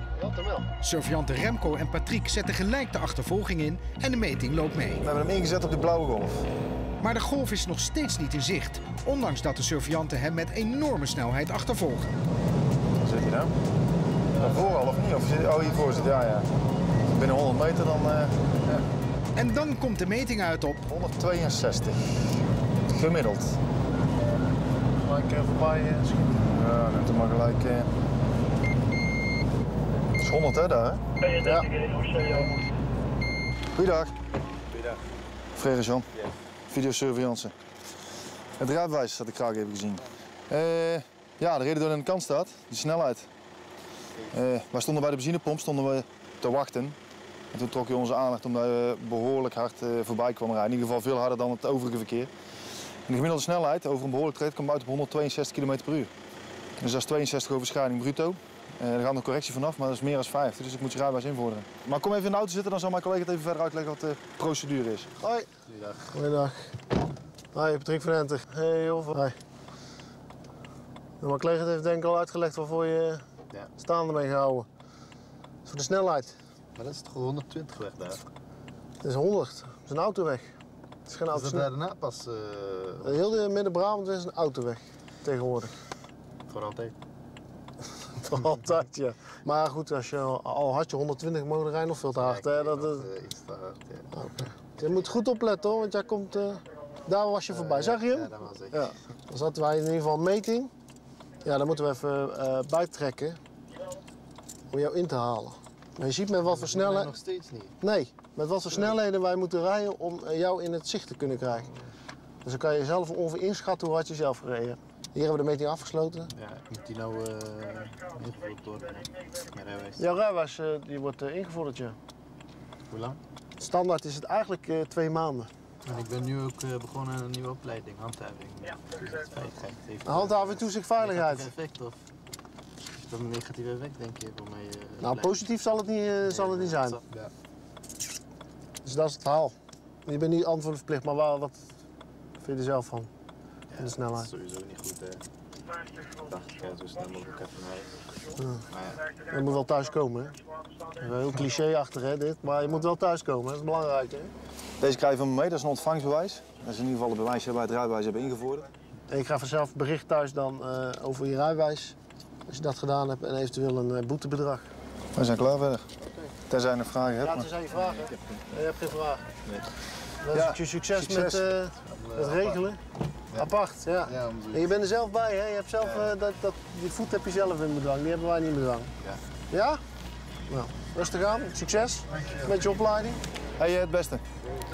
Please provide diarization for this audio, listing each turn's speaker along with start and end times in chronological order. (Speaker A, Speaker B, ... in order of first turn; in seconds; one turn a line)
Speaker A: 0.1-0.7
Speaker B: 0.8-5.0
Speaker C: 5.0-6.5
Speaker B: 7.0-12.1
Speaker C: 13.0-13.5
Speaker C: 14.4-16.5
Speaker C: 17.1-18.4
Speaker B: 19.3-20.8
Speaker C: 20.9-22.0
Speaker C: 22.9-23.6
Speaker A: 24.9-26.4
Speaker C: 26.4-27.9
Speaker C: 30.2-31.0
Speaker A: 31.3-32.6
Speaker C: 33.7-34.1
Speaker C: 35.5-36.0
Speaker C: 36.7-37.5
Speaker C: 38.6-43.3
Speaker C: 44.3-47.0
Speaker C: 47.5-52.3
Speaker C: 53.1-56.1
Speaker C: 56.8-65.1
Speaker A: 65.2-65.5
Speaker D: 65.7-66.2
Speaker A: 66.1-66.7
Speaker A: 67.5-69.3
Speaker A: 71.2-73.2
Speaker A: 73.8-74.7
Speaker A: 75.7-76.3
Speaker D: 76.7-78.2
Speaker A: 79.0-80.5
Speaker A: 81.1-81.7
Speaker D: 81.3-83.5
Speaker A: 83.0-85.7
Speaker D: 86.5-86.9
Speaker A: 88.2-93.0
Speaker D: 92.2-94.1
Speaker A: 94.1-100.7
Speaker D: 97.5-98.9
Speaker A: 101.4-103.4
Speaker A: 104.7-107.1
Speaker D: 106.4-107.7
Speaker A: 107.8-111.7
Speaker A: 112.4-116.3
Speaker D: 116.3-120.0
Speaker A: 120.0-122.0
Speaker D: 122.9-123.2
Speaker A: 123.6-125.5
Speaker D: 125.8-131.9
Speaker A: 130.0-131.5
Speaker D: 133.0-135.5
Speaker A: 135.0-137.0
Speaker D: 136.2-137.3
Speaker A: 138.8-139.5
Speaker A: 140.1-141.6
Speaker A: 142.4-143.1
Speaker D: 143.7-145.2
Speaker A: 143.8-144.3
Speaker D: 146.2-148.0
Speaker A: 148.4-148.6
Speaker D: 148.7-149.1
Speaker A: 149.3-150.3
Speaker A: 151.0-154.3
Speaker C: 154.8-158.7
Speaker A: 159.1-161.9
Speaker A: 162.5-164.7
Speaker C: 165.1-165.8
Speaker C: 166.5-167.5
Speaker A: 167.2-169.3
Speaker D: 167.7-168.2
Speaker A: 170.2-172.8
Speaker C: 170.3-171.5
Speaker D: 171.8-172.6
Speaker A: 173.3-178.9
Speaker D: 174.0-174.8
Speaker D: 175.8-176.1
Speaker A: 179.5-179.8
Speaker A: 180.5-183.2
Speaker D: 182.2-182.6
Speaker C: 183.6-184.2